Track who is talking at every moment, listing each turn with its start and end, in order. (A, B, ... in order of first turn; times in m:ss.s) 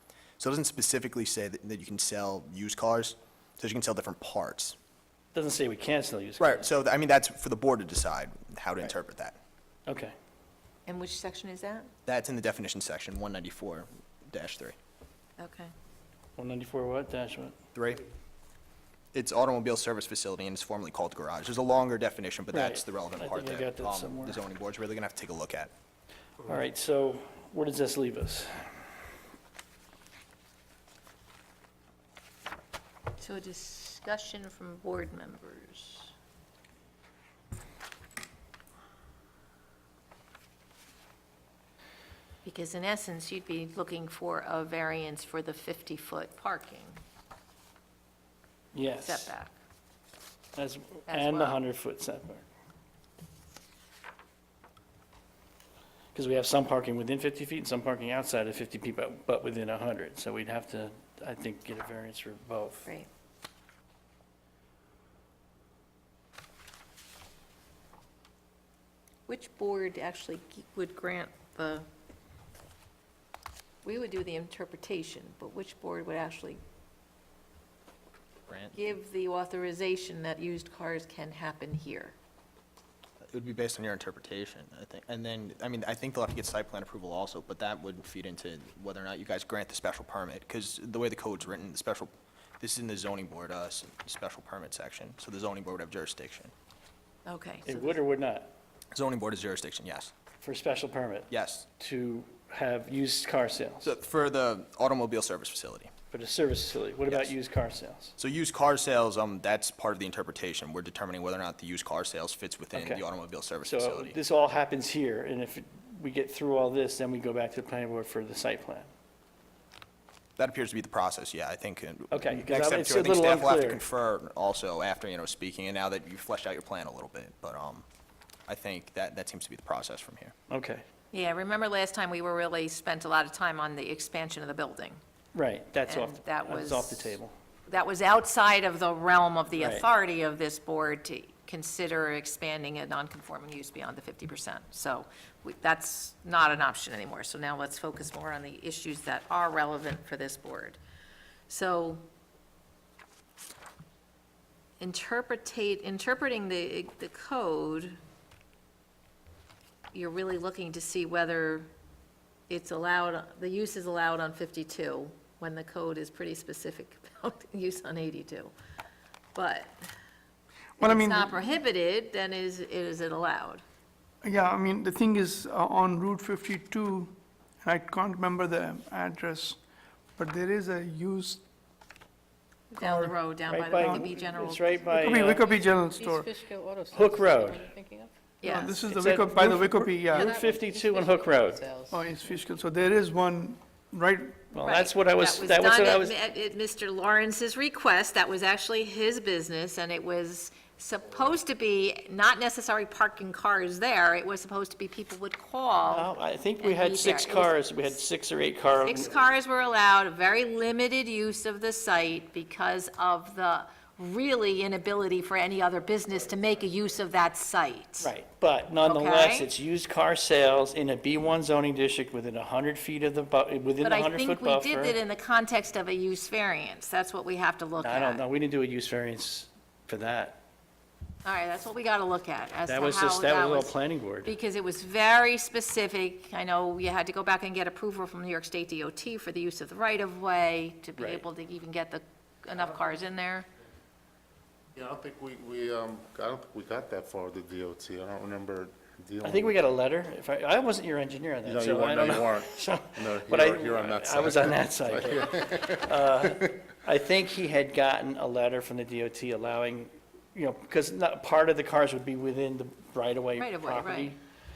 0:00.4-0:04.8 A
0:05.3-0:06.7 B
0:06.4-0:09.4 A
0:09.9-0:10.1 B
0:10.8-0:11.9 C
0:12.0-0:14.8 A
0:15.4-0:15.7 C
0:16.4-0:17.6 B
0:17.7-0:18.0 A
0:19.1-0:25.7 A
0:22.5-0:24.4 B
0:26.4-0:28.8 B
0:33.2-0:36.1 C
0:42.4-0:47.0 C
0:48.7-0:49.3 B
0:49.0-0:49.5 C
0:50.6-0:52.4 B
0:51.1-0:51.6 C
0:56.1-1:02.9 B
1:09.3-1:11.8 C
1:13.8-1:16.6 C
1:18.5-1:18.8 A
1:18.7-1:22.2 C
1:23.3-1:36.5 A
1:37.2-1:38.0 C
1:37.6-1:38.5 B
1:38.9-1:40.1 A
1:40.4-1:43.9 B
1:41.3-1:41.6 A
1:43.8-1:45.9 A
1:46.1-1:48.1 B
1:48.2-1:54.2 A
1:52.7-1:53.0 B
1:53.6-1:58.9 B
2:00.4-2:07.8 A
2:02.1-2:03.8 B
2:08.5-2:10.3 A
2:10.5-2:10.8 B
2:11.1-2:15.0 C
2:15.3-2:17.3 B
2:15.8-2:30.8 C
2:19.6-2:19.8 B
2:31.5-2:32.0 C
2:34.8-2:38.0 C
2:39.9-2:41.7 C
2:42.5-2:48.5 C
2:49.3-2:49.9 C
2:50.8-2:53.6 C
2:50.8-2:51.4 D
2:54.2-2:59.6 D
3:00.2-3:01.4 D
3:02.7-3:04.8 C
3:02.8-3:03.1 D
3:03.5-3:05.4 B
3:03.8-3:06.3 D
3:05.4-3:08.1 E
3:06.9-3:07.7 B
3:08.4-3:08.8 C
3:08.4-3:10.4 D
3:08.8-3:11.6 B
3:10.2-3:12.4 E
3:11.9-3:14.4 D
3:14.5-3:16.1 B
3:14.6-3:28.0 C
3:25.9-3:29.1 B
3:28.8-3:38.1 C
3:38.0-3:45.0 B
3:38.8-3:39.5 C
3:43.8-3:48.2 C
3:47.8-3:50.4 B
3:51.2-4:03.5 C
3:52.7-3:54.3 B
4:01.0-4:01.2 B
4:04.7-4:09.6 F
4:09.2-4:24.2 B
4:11.4-4:15.9 F
4:23.4-4:24.1 C